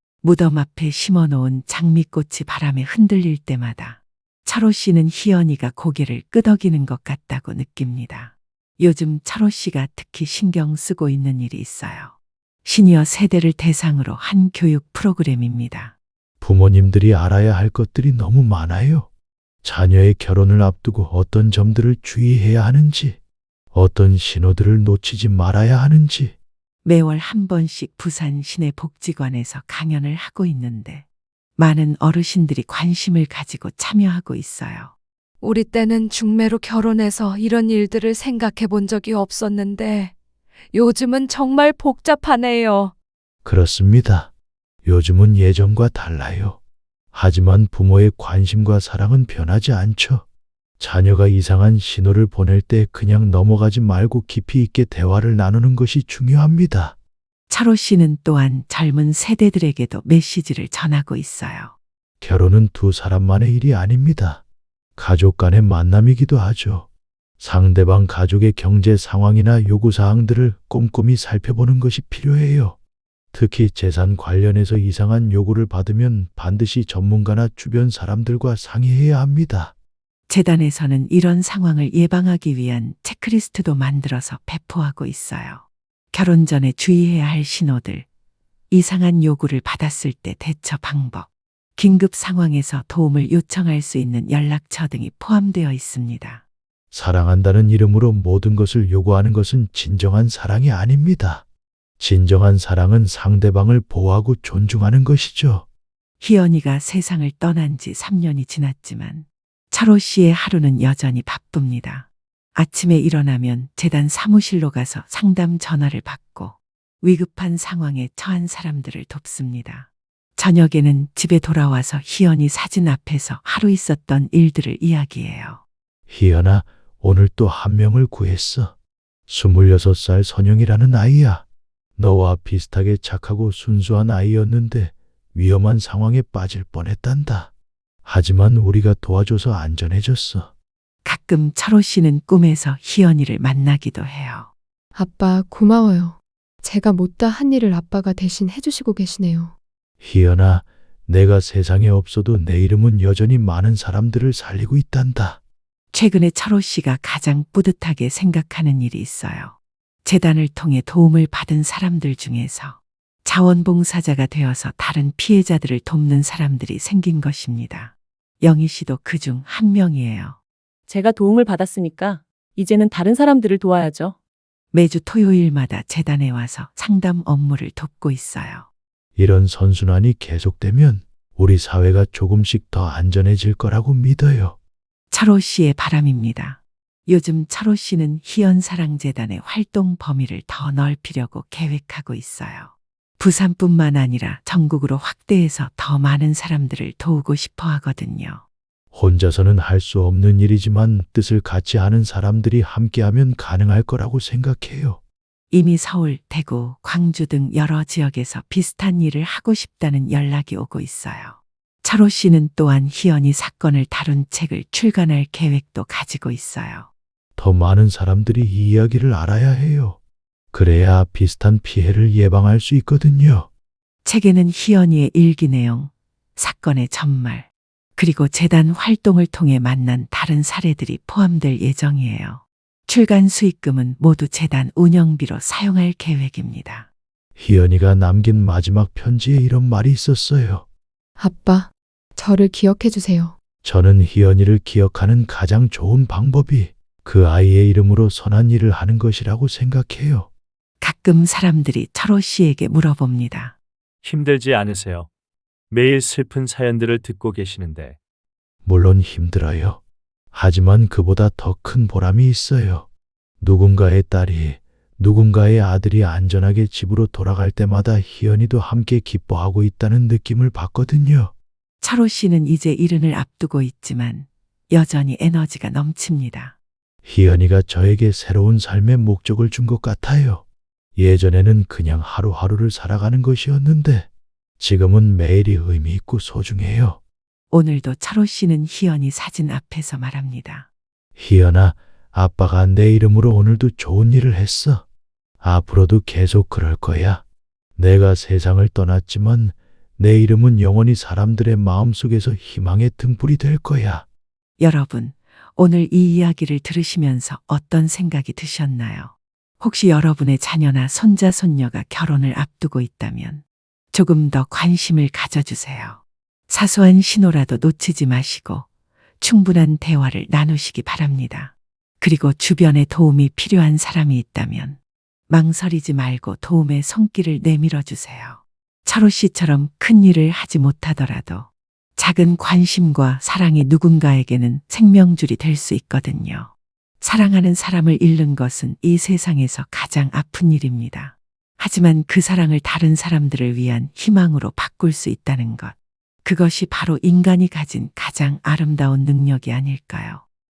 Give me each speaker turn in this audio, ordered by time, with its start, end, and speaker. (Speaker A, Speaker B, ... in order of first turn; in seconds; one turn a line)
Speaker A: 0.2-15.9
Speaker B: 16.4-19.1
Speaker B: 19.6-23.2
Speaker B: 23.7-26.4
Speaker A: 26.9-31.1
Speaker A: 31.6-34.9
Speaker C: 35.4-40.1
Speaker C: 40.7-42.9
Speaker B: 43.5-44.3
Speaker B: 44.9-46.6
Speaker B: 47.1-50.2
Speaker B: 50.8-57.0
Speaker A: 57.5-61.7
Speaker B: 62.2-64.4
Speaker B: 65.0-66.9
Speaker B: 67.4-72.8
Speaker B: 73.3-79.7
Speaker A: 80.3-88.1
Speaker A: 88.7-96.4
Speaker B: 96.9-101.4
Speaker B: 102.0-105.7
Speaker A: 106.2-125.6
Speaker B: 126.1-128.7
Speaker B: 129.3-131.4
Speaker B: 132.0-137.5
Speaker B: 138.1-140.5
Speaker A: 141.1-144.5
Speaker D: 144.9-149.5
Speaker B: 150.0-155.4
Speaker A: 155.9-170.4
Speaker E: 170.9-174.2
Speaker A: 174.7-178.7
Speaker B: 179.2-184.6
Speaker A: 185.1-198.4
Speaker B: 198.9-205.0
Speaker A: 205.5-216.9
Speaker B: 217.4-220.0
Speaker B: 220.5-223.5
Speaker A: 224.1-236.9
Speaker B: 237.4-240.7
Speaker D: 241.2-243.3
Speaker B: 243.6-250.3
Speaker A: 250.8-253.6
Speaker F: 254.0-255.1
Speaker F: 255.7-258.0
Speaker B: 258.6-259.8
Speaker B: 260.3-262.9
Speaker B: 263.4-271.3
Speaker A: 271.8-276.6
Speaker B: 277.1-280.4
Speaker B: 281.0-284.1
Speaker B: 284.6-287.0
Speaker A: 287.5-290.7
Speaker B: 291.2-294.9
Speaker B: 295.4-297.2
Speaker B: 297.8-304.1
Speaker A: 304.6-318.7
Speaker A: 319.2-324.8
Speaker A: 325.3-350.2